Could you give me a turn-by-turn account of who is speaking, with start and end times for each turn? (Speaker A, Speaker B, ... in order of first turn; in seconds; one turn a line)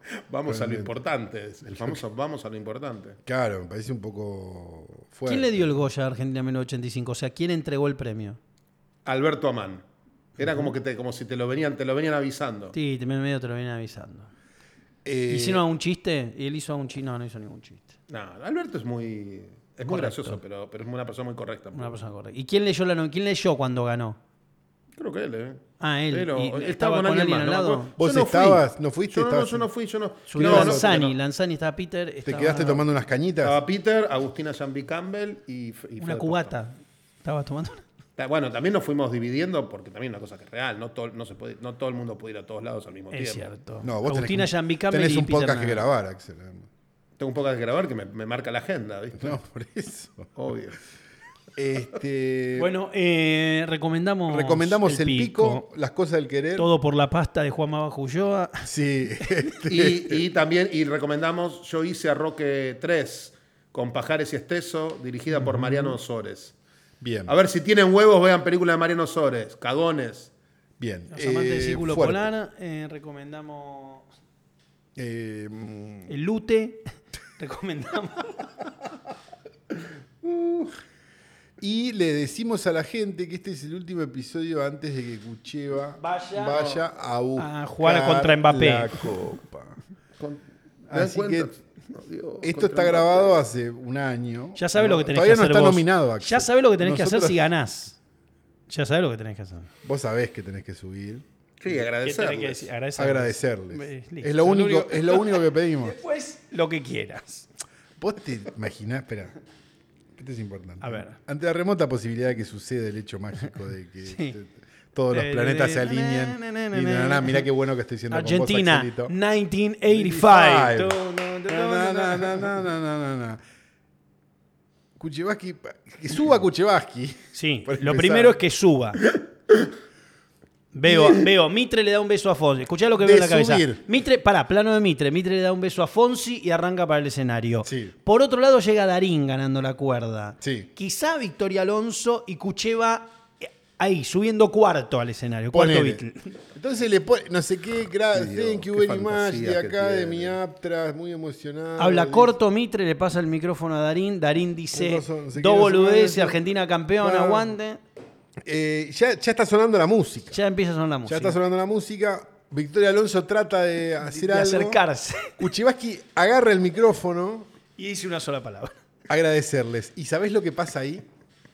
Speaker A: 0.1-3.2
Speaker B: 0.5-0.9
Speaker B: 1.7-2.0
Speaker B: 3.2-5.7
Speaker C: 5.2-8.4
Speaker A: 9.0-9.8
Speaker A: 10.4-12.7
Speaker C: 12.7-14.3
Speaker B: 15.0-15.6
Speaker C: 15.3-17.9
Speaker A: 18.1-22.0
Speaker C: 19.9-20.4
Speaker C: 21.7-24.2
Speaker A: 25.0-31.1
Speaker C: 25.8-27.9
Speaker B: 28.0-29.7
Speaker C: 30.3-32.8
Speaker B: 30.3-30.9
Speaker B: 32.2-33.6
Speaker A: 33.4-36.5
Speaker C: 36.0-37.8
Speaker A: 38.2-43.5
Speaker C: 43.1-45.8
Speaker B: 43.8-46.7
Speaker A: 47.2-49.4
Speaker B: 49.2-50.3
Speaker A: 50.3-50.8
Speaker B: 51.5-52.7
Speaker C: 52.5-55.6
Speaker B: 54.3-56.7
Speaker C: 56.5-58.7
Speaker B: 58.6-60.2
Speaker A: 59.6-66.5
Speaker C: 65.5-65.9
Speaker B: 67.0-67.3
Speaker A: 67.3-70.3
Speaker B: 70.8-72.3
Speaker C: 71.1-74.0
Speaker B: 75.0-76.1
Speaker C: 76.1-76.8
Speaker C: 77.4-78.5
Speaker B: 80.2-80.8
Speaker B: 81.6-89.8
Speaker C: 86.0-86.7
Speaker C: 87.3-89.0
Speaker A: 90.2-93.4
Speaker B: 90.9-91.5
Speaker B: 92.4-97.5
Speaker C: 94.5-98.0
Speaker C: 98.7-99.7
Speaker B: 99.8-101.2
Speaker A: 101.6-102.7
Speaker C: 102.0-107.5
Speaker B: 103.0-106.0
Speaker B: 108.0-109.3
Speaker B: 110.2-119.1
Speaker C: 110.8-111.2
Speaker C: 114.0-114.3
Speaker C: 115.1-117.5
Speaker C: 118.1-122.5
Speaker B: 119.9-123.4
Speaker B: 125.0-128.4
Speaker C: 127.3-129.0
Speaker C: 130.7-146.4
Speaker B: 133.0-133.8
Speaker B: 137.6-137.9
Speaker B: 140.4-140.7
Speaker B: 145.5-152.3
Speaker A: 148.1-150.4
Speaker C: 151.8-157.8
Speaker B: 154.7-156.4
Speaker B: 157.0-157.5
Speaker B: 158.4-160.4
Speaker C: 160.3-161.4
Speaker B: 161.1-164.8
Speaker C: 164.1-165.3
Speaker B: 165.4-167.5
Speaker C: 167.8-168.7
Speaker B: 169.1-171.1